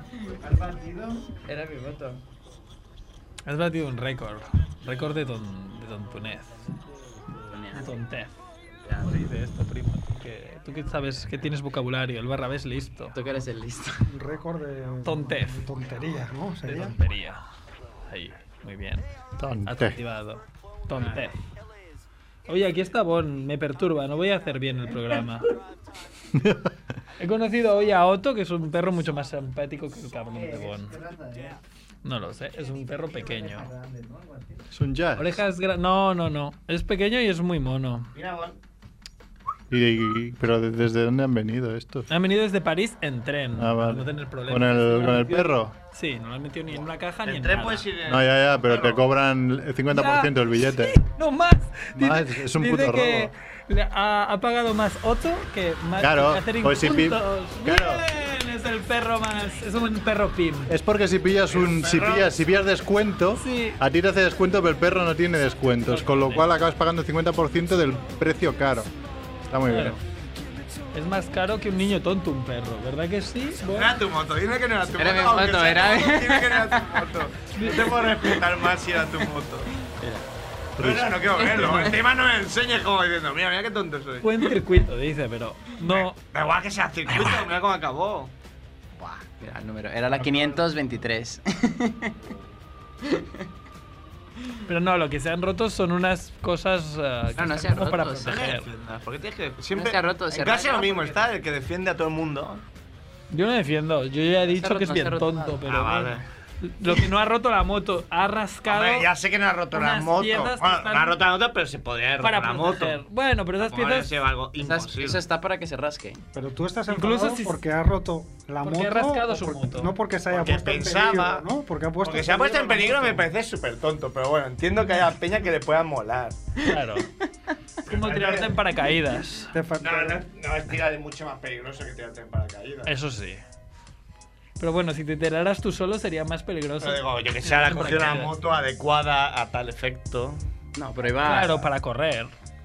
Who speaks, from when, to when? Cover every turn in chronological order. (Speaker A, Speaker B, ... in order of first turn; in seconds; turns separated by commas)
Speaker A: 0.4-1.2, Speaker B: 1.4-2.2, Speaker C: 3.5-6.7, Speaker B: 7.5-7.9, Speaker C: 7.7-8.4, Speaker C: 9.0-13.1, Speaker B: 13.1-14.1, Speaker D: 14.1-16.9, Speaker C: 15.0-15.6, Speaker C: 16.7-17.4, Speaker C: 18.1-19.0, Speaker E: 19.4-20.0, Speaker C: 19.6-21.4, Speaker C: 22.5-25.5, Speaker E: 26.3-26.7, Speaker C: 27.2-30.9, Speaker A: 30.3-31.6, Speaker C: 32.0-33.7, Speaker A: 33.3-34.4, Speaker E: 34.7-35.4, Speaker C: 35.1-38.1, Speaker A: 38.1-38.6, Speaker E: 39.7-42.1, Speaker C: 42.1-47.9, Speaker E: 43.5-45.8, Speaker A: 47.2-49.0, Speaker E: 48.0-51.0, Speaker C: 49.9-60.7, Speaker E: 52.0-53.3, Speaker E: 56.0-58.0, Speaker E: 60.7-68.9, Speaker A: 61.5-62.3, Speaker C: 63.4-63.8, Speaker C: 65.9-66.5, Speaker E: 69.4-70.0, Speaker C: 69.7-70.0, Speaker C: 70.9-74.0, Speaker A: 73.7-79.7, Speaker B: 74.9-77.0, Speaker C: 77.5-78.0, Speaker E: 80.8-81.3, Speaker A: 80.8-84.4, Speaker B: 81.6-81.9, Speaker C: 84.2-86.2, Speaker A: 85.9-88.3, Speaker A: 89.0-89.2, Speaker B: 89.4-92.2, Speaker C: 94.7-98.7, Speaker B: 97.4-98.5, Speaker A: 98.2-102.6, Speaker B: 99.7-101.3, Speaker C: 103.3-109.1, Speaker B: 104.5-105.6, Speaker A: 105.6-106.2, Speaker A: 108.7-113.0, Speaker C: 109.7-111.2, Speaker C: 112.2-114.1, Speaker A: 113.6-115.2, Speaker B: 114.5-116.2, Speaker D: 116.3-123.3, Speaker C: 116.9-117.6, Speaker C: 118.6-119.9, Speaker A: 120.3-121.5, Speaker A: 122.0-126.5, Speaker C: 126.7-127.1, Speaker C: 127.9-129.5, Speaker A: 127.9-128.6, Speaker D: 129.5-130.2, Speaker A: 129.8-132.9, Speaker C: 132.8-133.4, Speaker C: 134.6-138.3, Speaker A: 136.8-140.4, Speaker B: 140.7-141.7, Speaker C: 141.2-142.3